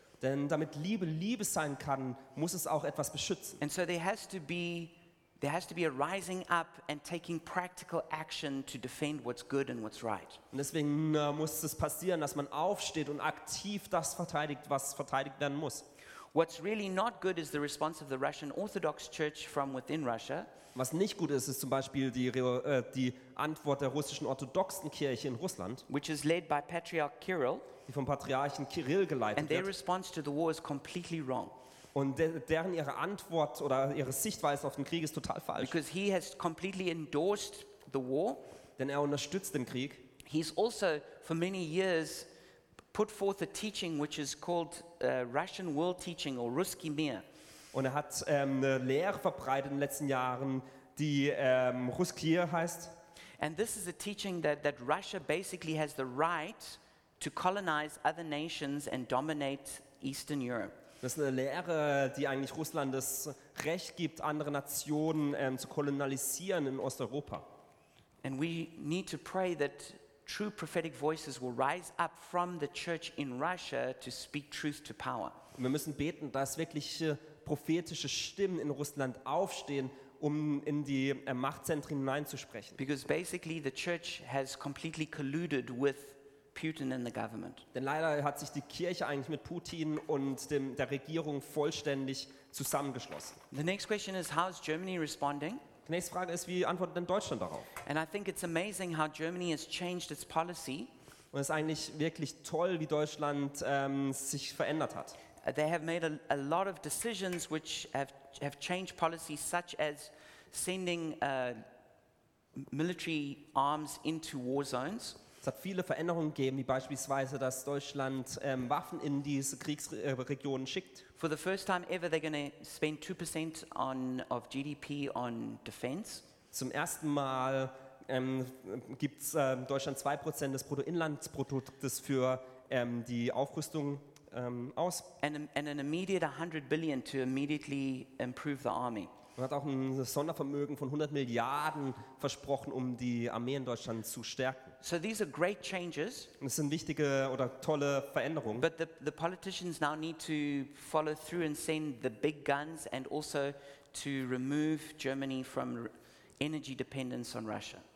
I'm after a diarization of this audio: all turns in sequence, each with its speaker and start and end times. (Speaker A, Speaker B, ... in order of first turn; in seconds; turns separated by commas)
Speaker A: 0.2-3.6, Speaker B: 3.6-10.4, Speaker A: 10.5-15.8, Speaker B: 16.3-20.5, Speaker A: 20.8-25.9, Speaker B: 25.9-27.7, Speaker A: 27.9-29.7, Speaker B: 29.4-31.6, Speaker A: 31.9-35.8, Speaker B: 35.6-38.4, Speaker A: 38.8-40.0, Speaker B: 40.2-42.3, Speaker B: 42.9-47.2, Speaker A: 47.7-52.9, Speaker B: 53.4-60.8, Speaker A: 61.0-67.5, Speaker B: 68.2-75.4, Speaker A: 75.6-82.8, Speaker B: 82.8-87.7, Speaker A: 87.7-93.4, Speaker B: 93.5-95.6, Speaker A: 95.9-97.7, Speaker B: 97.8-100.9, Speaker A: 101.3-105.2, Speaker B: 105.4-111.6, Speaker B: 112.6-115.2, Speaker A: 115.4-121.1, Speaker B: 121.2-126.2, Speaker A: 126.5-135.1, Speaker B: 135.2-139.1, Speaker A: 139.4-144.8, Speaker B: 144.8-146.3, Speaker A: 146.4-148.7, Speaker B: 148.6-157.8